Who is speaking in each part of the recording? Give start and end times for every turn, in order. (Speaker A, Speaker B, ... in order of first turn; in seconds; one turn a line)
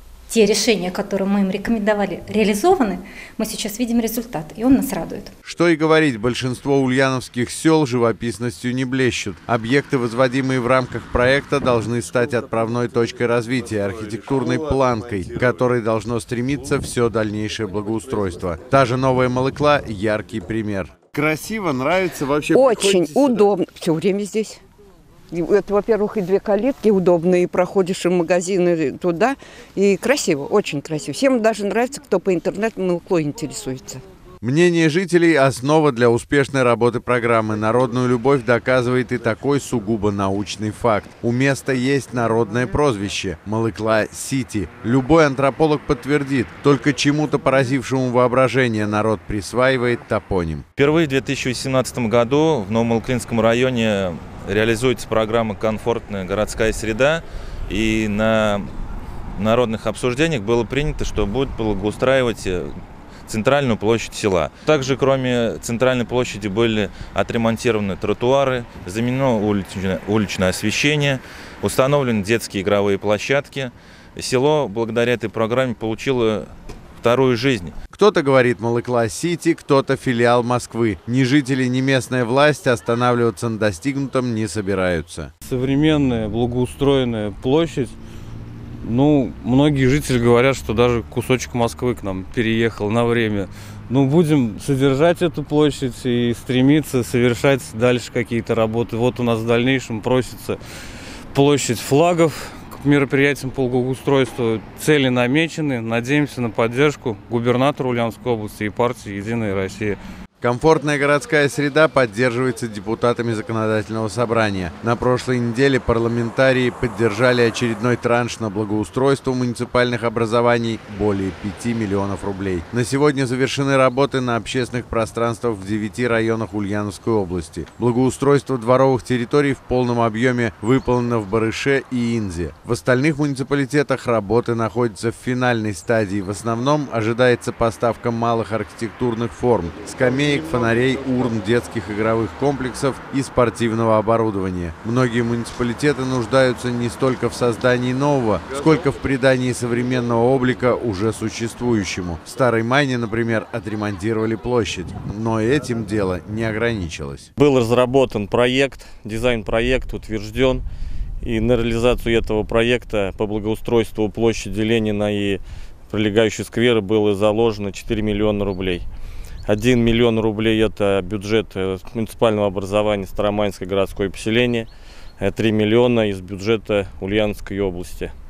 Speaker A: 0.3-5.3
Speaker B: 5.4-23.5
Speaker C: 22.5-24.6
Speaker C: 25.3-34.0
Speaker B: 34.4-50.6
Speaker D: 50.8-58.7
Speaker D: 59.4-62.7
Speaker D: 63.3-76.5
Speaker D: 77.0-77.7
Speaker B: 77.9-85.3
Speaker E: 85.4-87.9
Speaker E: 88.8-100.6
Speaker E: 101.3-110.0
Speaker B: 110.4-157.3
Speaker F: 157.4-160.6
Speaker F: 161.2-168.8
Speaker F: 169.4-178.1